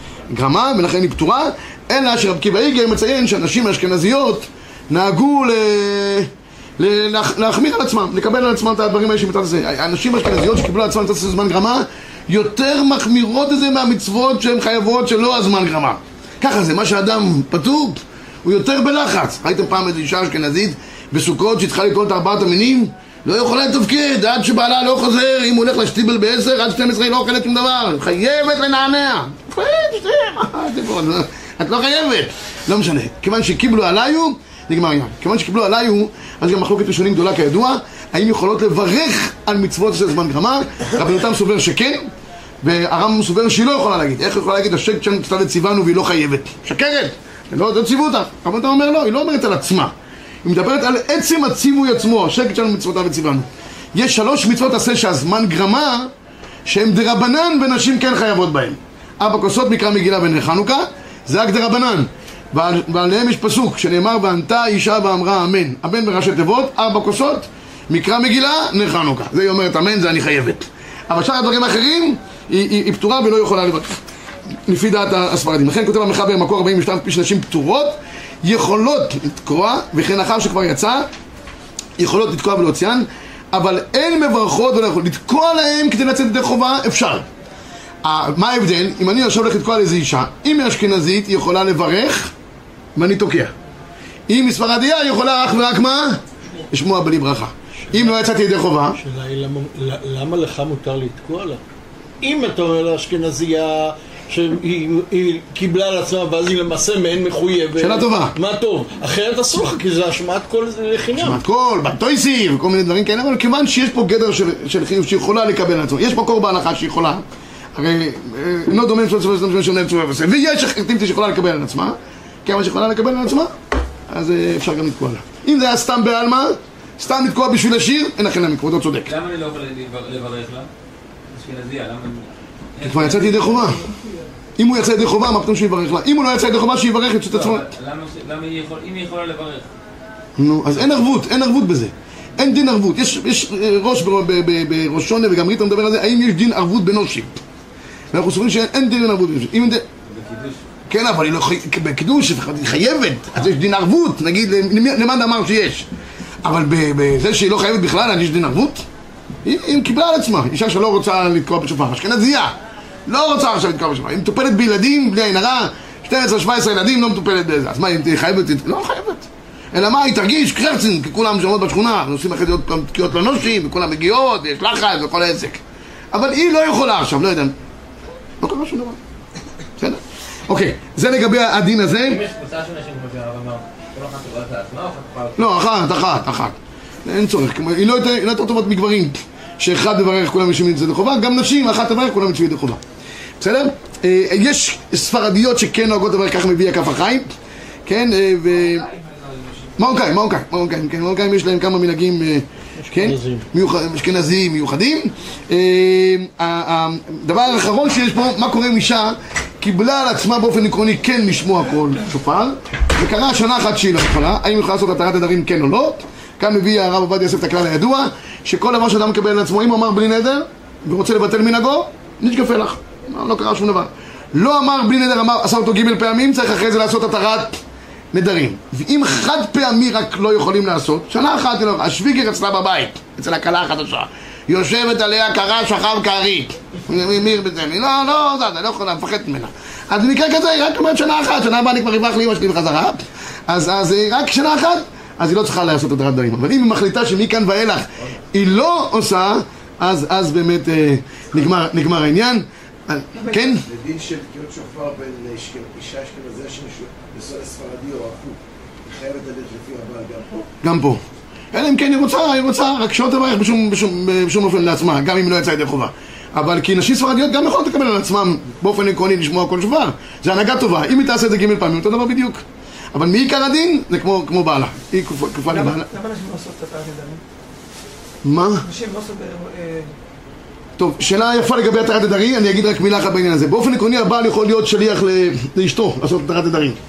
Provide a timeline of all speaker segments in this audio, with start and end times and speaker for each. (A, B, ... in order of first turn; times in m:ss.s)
0:00.3-0:42.1 A
0:42.6-0:49.9 A
0:50.4-0:56.1 A
0:56.7-1:14.0 A
1:14.7-1:21.1 A
1:22.0-1:27.3 A
1:28.0-1:32.3 A
1:33.0-1:33.5 A
1:34.3-1:39.0 A
1:39.0-1:41.6 B
1:42.2-1:51.4 B
1:47.8-1:48.4 A
1:51.2-1:57.2 A
1:57.8-2:03.5 A
2:04.1-2:09.1 A
2:09.1-2:10.7 C
2:11.3-2:14.1 C
2:12.8-2:13.9 A
2:14.6-2:17.7 A
2:17.3-2:19.7 C
2:20.4-2:27.4 A
2:28.1-2:29.8 A
2:30.1-2:30.6 C
2:30.9-2:35.9 A
2:36.4-2:38.8 A
2:39.4-2:42.6 A
2:43.1-2:55.6 A
2:56.1-2:57.6 A
2:58.4-2:59.0 A
2:59.8-3:02.2 A
3:02.0-3:05.4 C
3:05.4-3:12.8 A
3:13.4-3:17.3 A
3:17.9-3:18.9 A
3:18.5-3:19.8 C
3:19.8-3:47.6 A
3:22.8-3:23.5 B
3:48.1-4:13.6 A
4:13.4-4:20.5 D
4:20.6-4:21.0 A
4:21.5-4:35.9 A
4:35.9-4:37.2 E
4:36.0-4:37.2 C
4:38.2-4:38.7 A
4:38.7-4:40.0 E
4:40.8-4:46.8 A